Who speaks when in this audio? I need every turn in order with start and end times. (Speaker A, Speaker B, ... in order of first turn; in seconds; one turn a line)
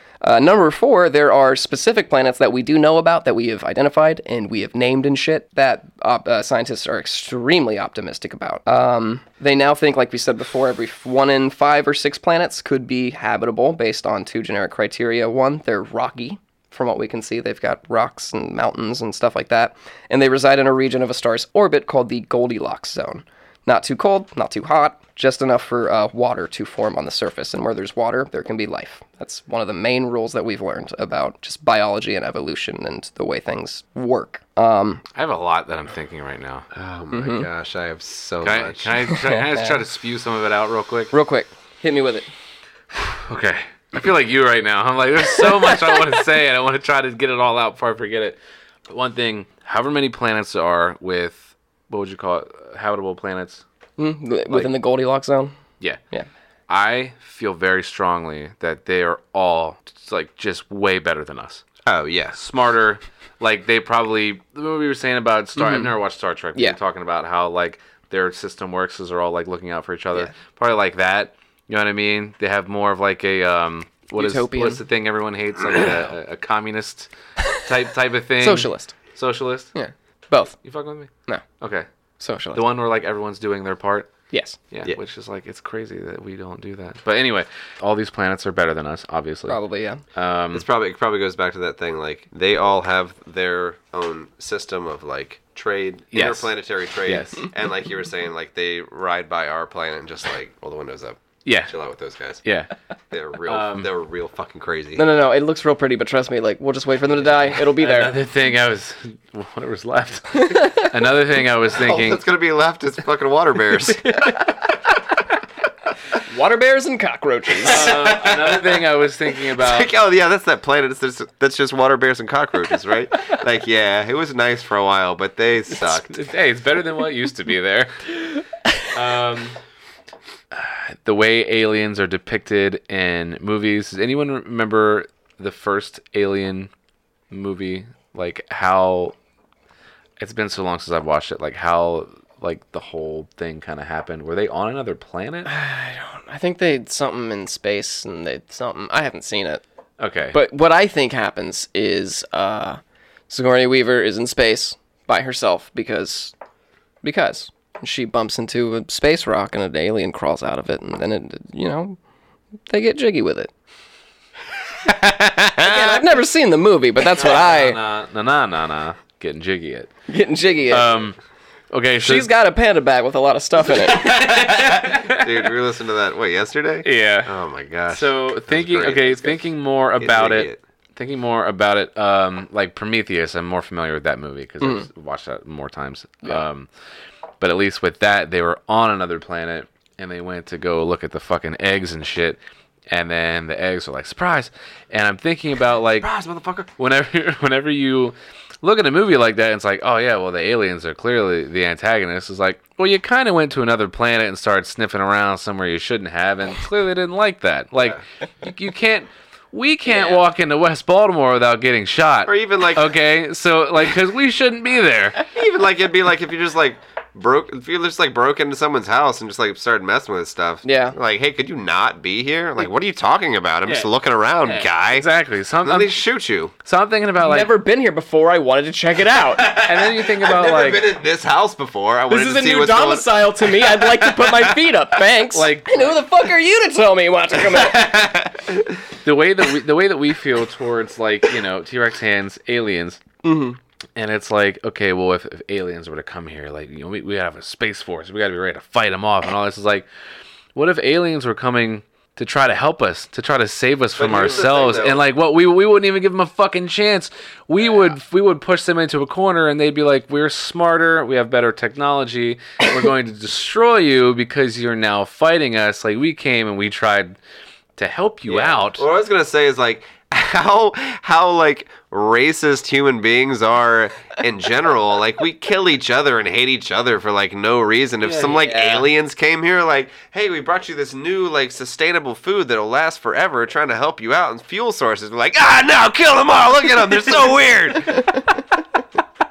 Speaker A: 0.2-35.0
Speaker B: 35.2-36.7
Speaker C: 36.7-39.0
Speaker A: 37.1-37.5
Speaker B: 38.4-41.1
Speaker A: 39.2-39.8
Speaker A: 41.1-42.3
Speaker B: 43.0-48.4
Speaker B: 48.9-53.6
Speaker A: 54.0-55.5
Speaker B: 56.7-61.6
Speaker C: 61.9-62.4
Speaker B: 62.4-79.7
Speaker A: 65.6-65.9
Speaker A: 74.2-74.8
Speaker A: 78.4-79.0
Speaker A: 79.8-80.5
Speaker B: 80.6-81.9
Speaker A: 82.2-82.6
Speaker B: 82.5-84.1
Speaker A: 84.3-84.6
Speaker B: 84.7-89.6
Speaker A: 89.5-90.0
Speaker B: 90.2-90.7
Speaker C: 90.5-102.4
Speaker B: 96.1-96.5
Speaker B: 97.0-97.5
Speaker B: 101.5-101.8
Speaker B: 102.4-102.7
Speaker C: 103.1-105.1
Speaker B: 103.5-103.9
Speaker A: 105.0-108.2
Speaker B: 107.6-112.2
Speaker C: 111.7-114.3
Speaker A: 116.3-117.9
Speaker B: 117.7-119.9
Speaker C: 117.8-118.8
Speaker C: 119.5-126.2
Speaker B: 125.7-129.6
Speaker B: 130.5-136.7
Speaker B: 137.3-139.1
Speaker B: 140.2-145.5
Speaker A: 145.5-149.6
Speaker B: 150.0-150.4
Speaker A: 150.3-156.3
Speaker A: 157.0-162.0
Speaker A: 162.7-163.5
Speaker B: 164.9-165.9
Speaker A: 165.6-167.8
Speaker B: 167.1-169.9
Speaker A: 170.1-170.9
Speaker B: 170.7-171.2
Speaker B: 171.7-172.3
Speaker A: 172.0-174.1
Speaker B: 173.7-175.5
Speaker C: 174.1-179.4
Speaker B: 176.8-177.3
Speaker B: 177.9-186.7
Speaker C: 180.0-180.6
Speaker B: 187.4-192.4
Speaker B: 192.9-196.1
Speaker C: 196.0-196.7
Speaker B: 196.8-215.3
Speaker C: 212.3-213.0
Speaker C: 215.3-225.1
Speaker A: 220.6-221.0
Speaker B: 223.7-223.9
Speaker B: 224.4-226.0
Speaker C: 225.6-226.5
Speaker B: 226.6-227.5
Speaker A: 227.2-229.5
Speaker C: 229.4-233.3
Speaker B: 229.5-230.8
Speaker A: 232.1-237.9
Speaker B: 235.3-236.0
Speaker B: 239.0-243.0
Speaker A: 243.2-243.6
Speaker B: 244.0-249.9
Speaker B: 250.6-267.2
Speaker C: 254.0-255.0
Speaker B: 267.8-268.9
Speaker C: 268.3-288.1
Speaker B: 278.0-278.5
Speaker A: 278.4-278.8